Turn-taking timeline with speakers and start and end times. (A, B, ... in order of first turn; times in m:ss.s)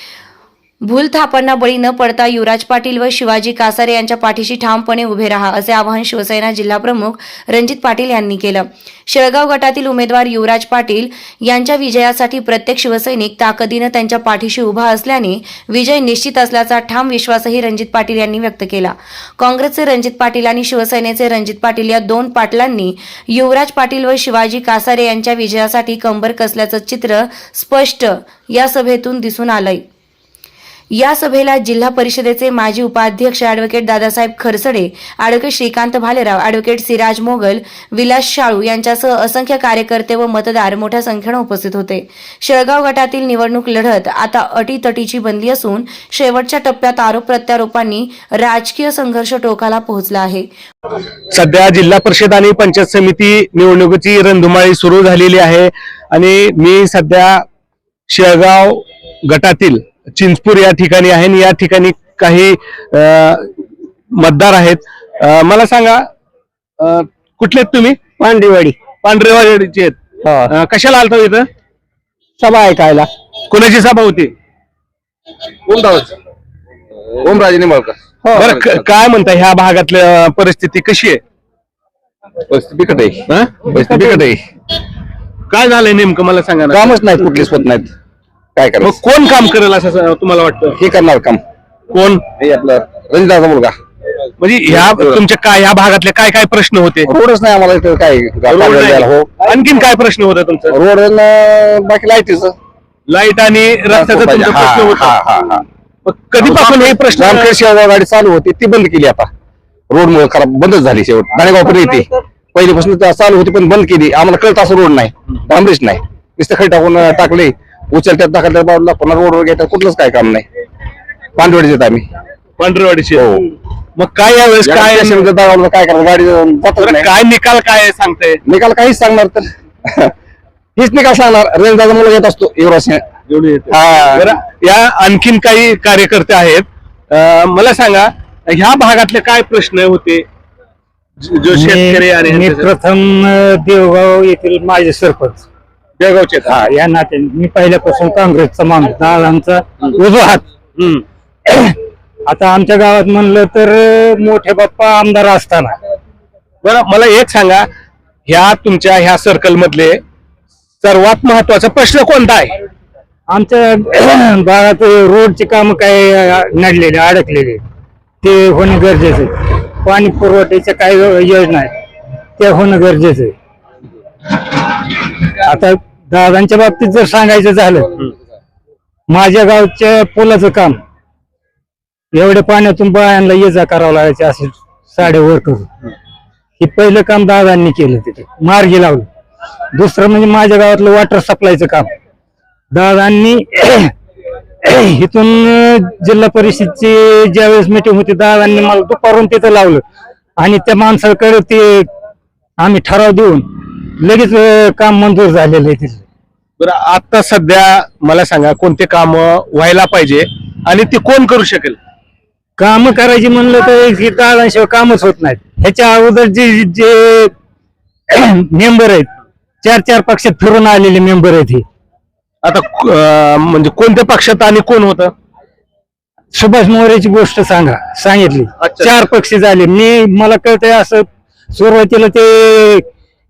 0:00.8-0:29.8 A
0:31.0-0:50.5 A
0:51.3-0:57.4 B
0:58.1-1:03.5 B
1:04.2-1:06.1 B
1:06.8-1:08.0 B
1:08.2-1:08.6 C
1:09.0-1:10.0 B
1:10.5-1:11.5 B
1:13.5-1:14.3 B
1:17.2-1:18.8 C
1:18.3-1:21.2 B
1:22.5-1:24.4 C
1:23.3-1:24.2 B
1:25.5-1:27.0 B
1:26.7-1:27.9 C
1:28.6-1:28.9 C
1:28.8-1:30.8 B
1:30.8-1:31.4 C
1:31.9-1:32.2 B
1:32.4-1:33.7 C
1:34.4-1:37.1 B
1:37.0-1:39.3 C
1:38.5-1:40.8 B
1:40.7-1:42.5 C
1:43.1-1:45.2 B
1:43.9-1:45.6 C
1:46.0-1:47.5 B
1:46.4-1:49.3 C
1:49.9-2:00.4 C
2:01.4-2:02.0 C
2:02.6-2:03.2 B
2:03.1-2:03.4 C
2:04.0-2:05.3 B
2:04.6-2:07.1 C
2:06.8-2:08.4 B
2:08.4-2:10.1 C
2:10.8-2:13.0 C
2:13.3-2:20.2 B
2:13.7-2:14.3 C
2:21.2-2:22.7 B
2:21.5-2:25.4 D
2:26.0-2:26.6 B
2:26.5-2:30.4 D
2:30.8-2:31.0 B
2:31.4-2:35.8 D
2:36.6-2:37.7 B
2:38.3-2:40.0 B
2:40.8-2:42.5 B
2:43.3-2:47.6 D
2:48.2-2:51.7 D
2:52.4-2:53.3 D
2:54.5-2:57.9 D
2:59.1-3:00.8 D
3:02.1-3:05.7 D
3:06.6-3:09.1 D
3:09.7-3:11.9 D
3:12.7-3:13.9 D
3:14.6-3:19.8 D
3:20.4-3:21.9 D
3:22.6-3:23.4 D
3:24.0-3:26.0 D
3:26.6-3:31.8 B
3:32.6-3:37.3 D
3:38.1-3:39.1 D
3:39.6-3:41.6 D
3:42.4-3:45.1 B
3:46.3-3:52.8 D
3:48.6-3:48.9 B